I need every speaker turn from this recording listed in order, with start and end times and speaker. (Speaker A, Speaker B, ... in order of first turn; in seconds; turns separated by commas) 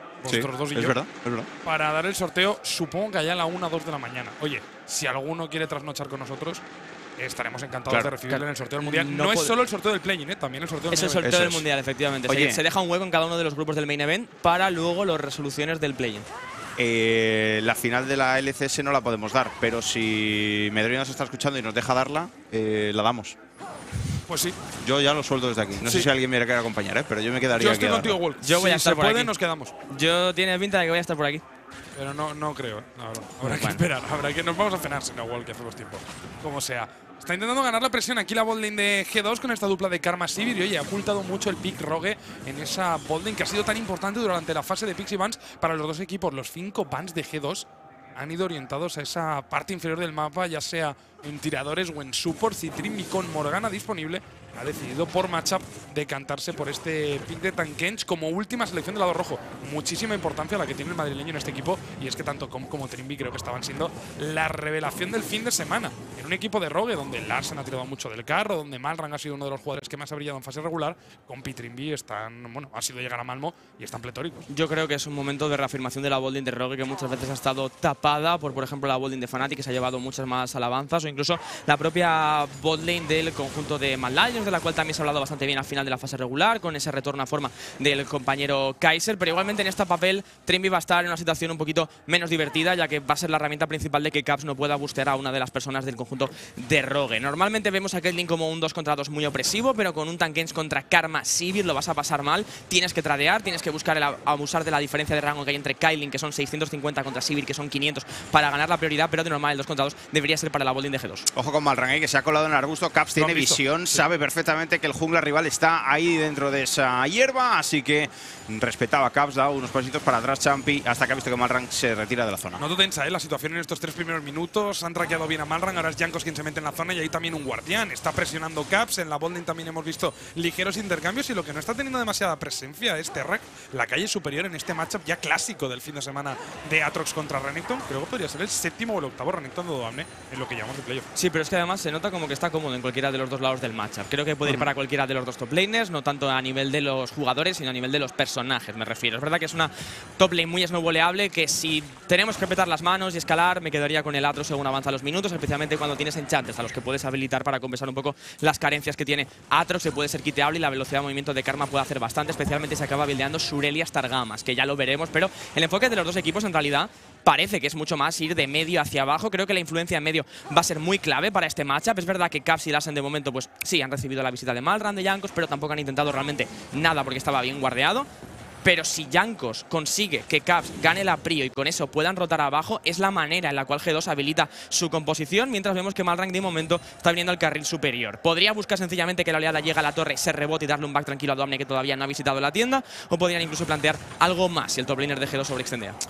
Speaker A: 0.2-1.0, Speaker B: 0.3-1.5, Speaker A: 1.6-6.6, Speaker A: 7.2-11.4, Speaker C: 8.3-9.6, Speaker C: 10.9-16.3, Speaker B: 11.2-11.7, Speaker B: 12.3-12.6, Speaker B: 16.8-23.4, Speaker A: 24.3-24.6, Speaker B: 24.8-28.2, Speaker A: 25.8-26.1, Speaker A: 27.6-29.7, Speaker C: 28.4-29.3, Speaker C: 29.9-31.4, Speaker A: 31.9-74.5, Speaker C: 33.4-33.8, Speaker C: 74.5-111.3, Speaker B: 111.3-122.6, Speaker A: 113.2-114.0, Speaker A: 122.6-141.1, Speaker C: 141.2-178.1, Speaker C: 178.6-196.0